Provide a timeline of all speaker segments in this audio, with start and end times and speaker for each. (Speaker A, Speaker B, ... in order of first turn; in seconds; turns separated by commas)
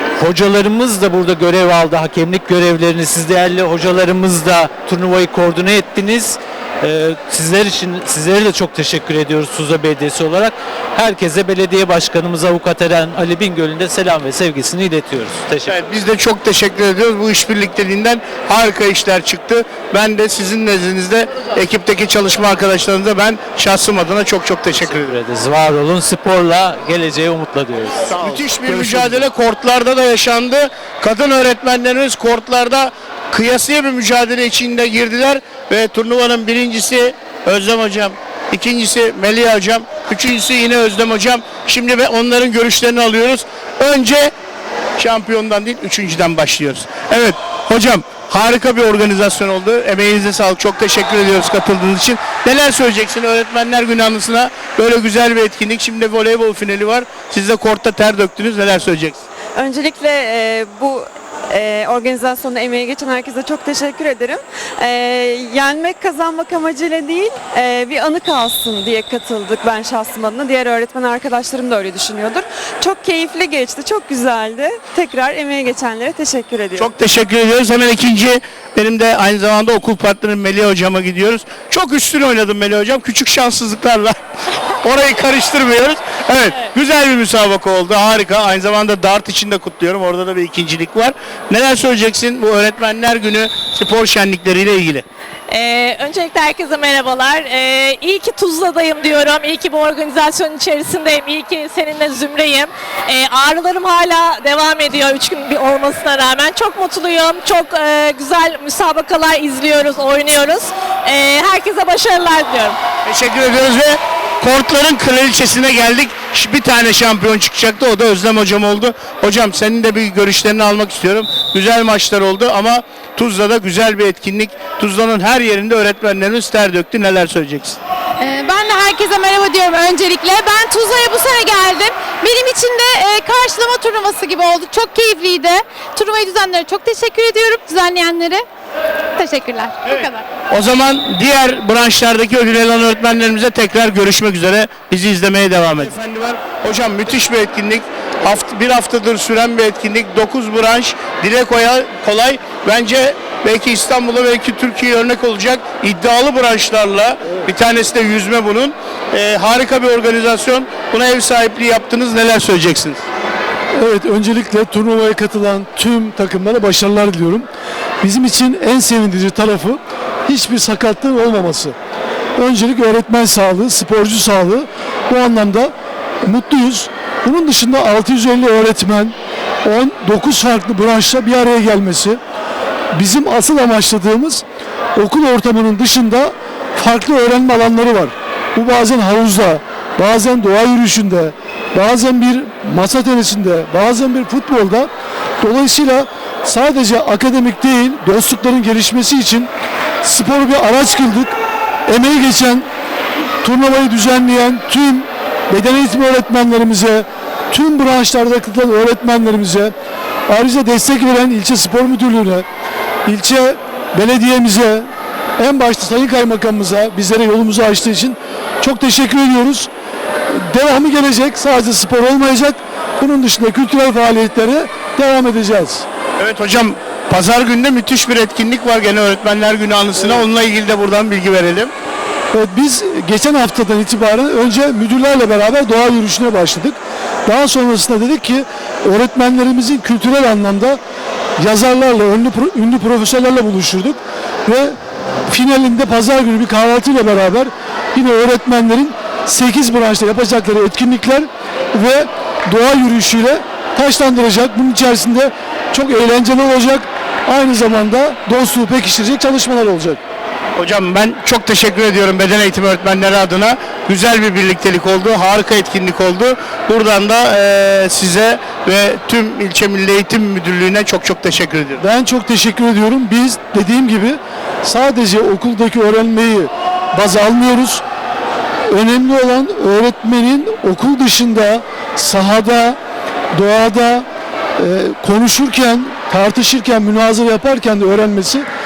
Speaker A: 0.2-15.8, Speaker B: 15.7-25.1, Speaker A: 24.8-29.2, Speaker B: 28.1-44.3, Speaker B: 45.0-59.2, Speaker C: 59.5-76.9, Speaker B: 76.8-84.2, Speaker B: 84.8-95.0, Speaker D: 95.5-112.8, Speaker B: 113.0-127.8, Speaker E: 128.2-138.4, Speaker E: 139.2-140.2, Speaker B: 139.9-163.0, Speaker F: 163.8-167.4, Speaker F: 168.0-171.7, Speaker F: 172.4-175.7, Speaker F: 176.2-179.1, Speaker F: 179.6-182.2, Speaker F: 183.0-184.4, Speaker F: 185.0-194.9, Speaker F: 195.4-199.5, Speaker F: 200.0-201.3, Speaker F: 201.9-202.6, Speaker F: 203.4-209.7, Speaker F: 210.3-212.4, Speaker F: 213.1-214.8, Speaker F: 215.4-219.7, Speaker F: 220.3-225.8, Speaker B: 226.2-231.7, Speaker F: 232.3-240.8, Speaker F: 241.4-244.7, Speaker F: 245.3-260.0, Speaker B: 260.6-271.8, Speaker F: 271.8-277.8, Speaker F: 278.7-282.8, Speaker F: 283.3-284.0, Speaker F: 284.6-288.4